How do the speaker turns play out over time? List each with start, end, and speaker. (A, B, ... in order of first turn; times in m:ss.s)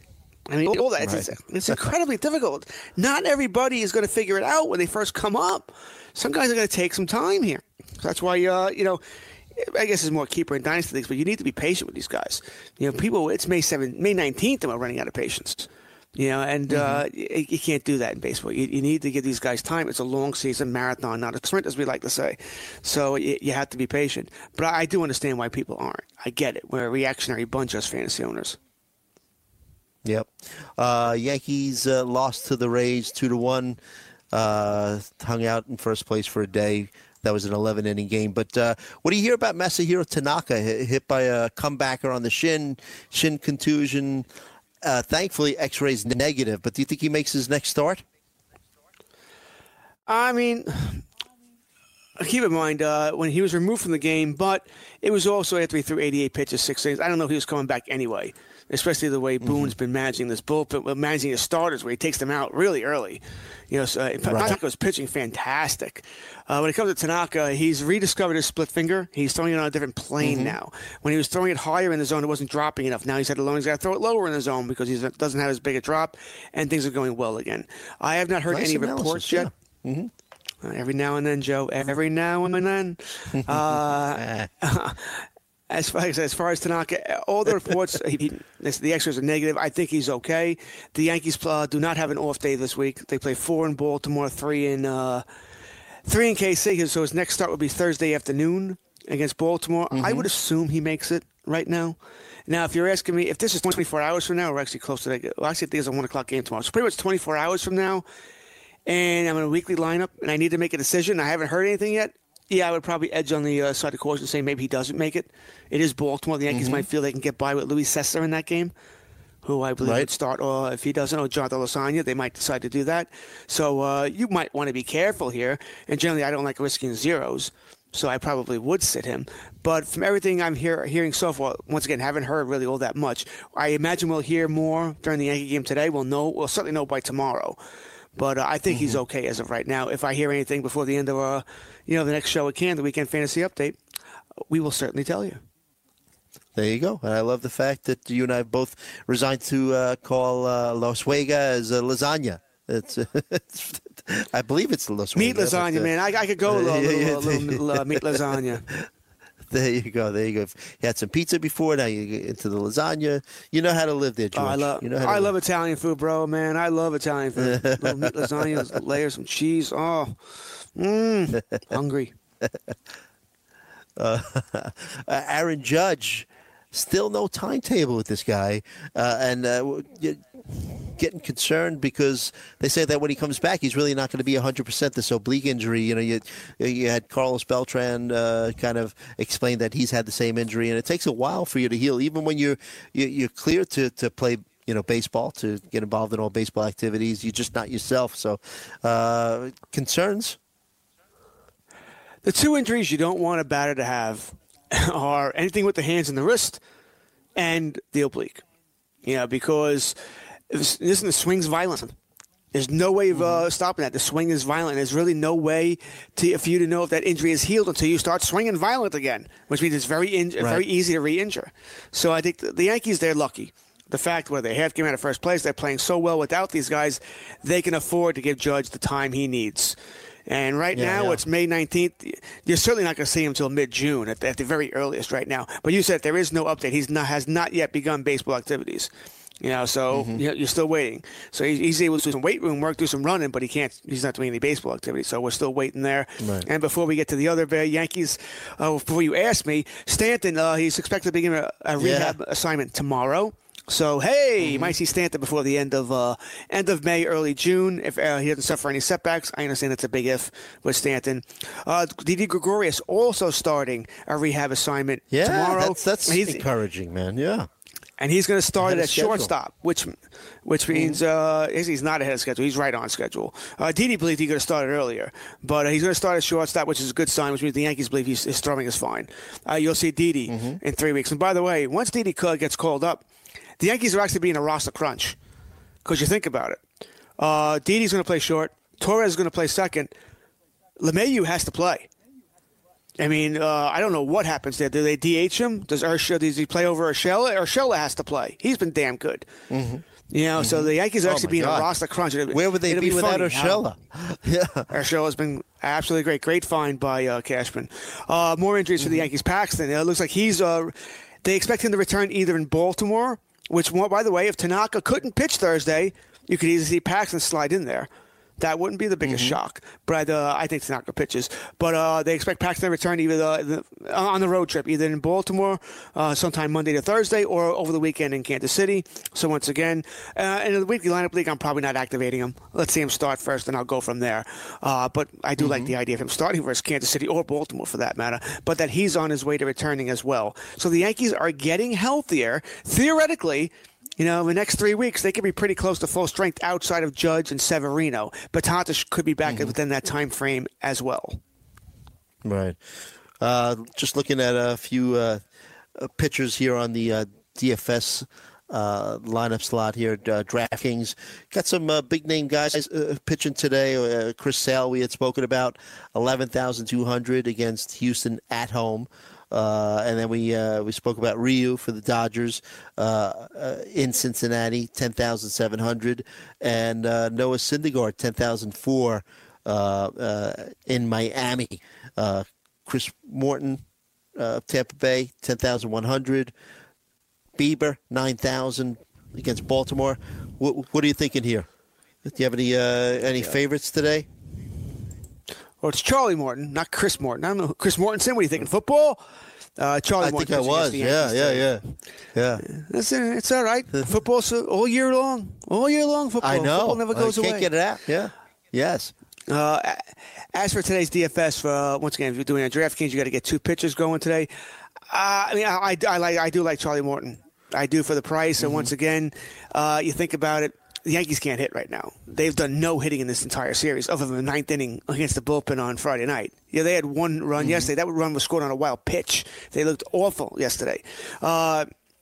0:00.5-0:09.0 A
0:01.0-0:01.8 B
0:09.5-0:28.6 A
0:16.7-0:17.0 B
0:30.0-0:33.8 B
0:34.3-0:44.3 B
0:44.8-0:48.0 B
0:50.1-0:51.0 A
0:52.2-1:19.5 A
0:59.4-0:59.7 B
1:04.3-1:04.6 B
1:10.2-1:10.6 B
1:18.5-1:20.1 B
1:20.6-1:35.2 A
1:23.3-1:24.5 B
1:36.0-1:48.0 A
1:39.9-1:40.3 B
1:48.8-1:58.7 A
1:56.5-1:56.8 B
1:59.4-2:17.6 A
1:59.8-2:00.1 B
2:18.2-2:23.8 A
2:18.7-2:19.0 B
2:24.5-2:25.4 A
2:26.6-2:35.9 B
2:35.2-2:38.6 A
2:36.4-2:38.9 B
2:39.5-2:45.3 B
2:44.3-2:50.2 A
2:47.4-2:48.8 B
2:50.7-2:52.1 A
2:54.0-3:20.4 B
3:22.2-3:26.6 A
3:27.4-3:28.4 A
3:29.0-3:30.0 A
3:30.5-3:31.9 A
3:32.5-3:49.8 A
3:33.1-3:33.4 B
3:40.4-3:40.6 B
3:50.3-3:58.9 A
3:50.7-3:51.2 B
3:59.4-4:26.4 A
3:59.9-4:00.2 B
4:06.2-4:06.5 B
4:11.8-4:12.2 B
4:14.4-4:14.7 B
4:25.1-4:27.5 B
4:28.0-4:43.0 A
4:28.6-4:29.3 B
4:30.7-4:31.0 B
4:40.3-4:40.6 B
4:43.6-4:45.2 A
4:45.8-4:46.6 A
4:47.2-4:49.9 A
4:50.8-4:51.9 A
4:53.0-4:59.3 A
4:59.5-4:59.8 B
5:00.1-5:03.6 A
5:00.4-5:01.7 B
5:02.3-5:04.7 B
5:04.7-5:51.2 A
5:08.8-5:09.1 B
5:19.0-5:19.4 B
5:35.4-5:35.7 B
5:49.2-5:49.6 B
5:52.2-5:52.6 B
5:53.2-5:55.2 B
5:55.7-6:23.6 B
6:24.1-6:26.3 B
6:27.4-6:31.5 B
6:32.0-6:34.1 B
6:35.6-6:39.0 A
6:39.6-6:41.5 A
6:40.0-6:41.6 B
6:42.1-6:42.4 B
6:42.4-6:47.5 A
6:46.2-6:48.9 B
6:49.3-6:54.3 A
6:54.9-7:11.7 A
6:58.4-6:58.7 B
7:07.4-7:07.7 B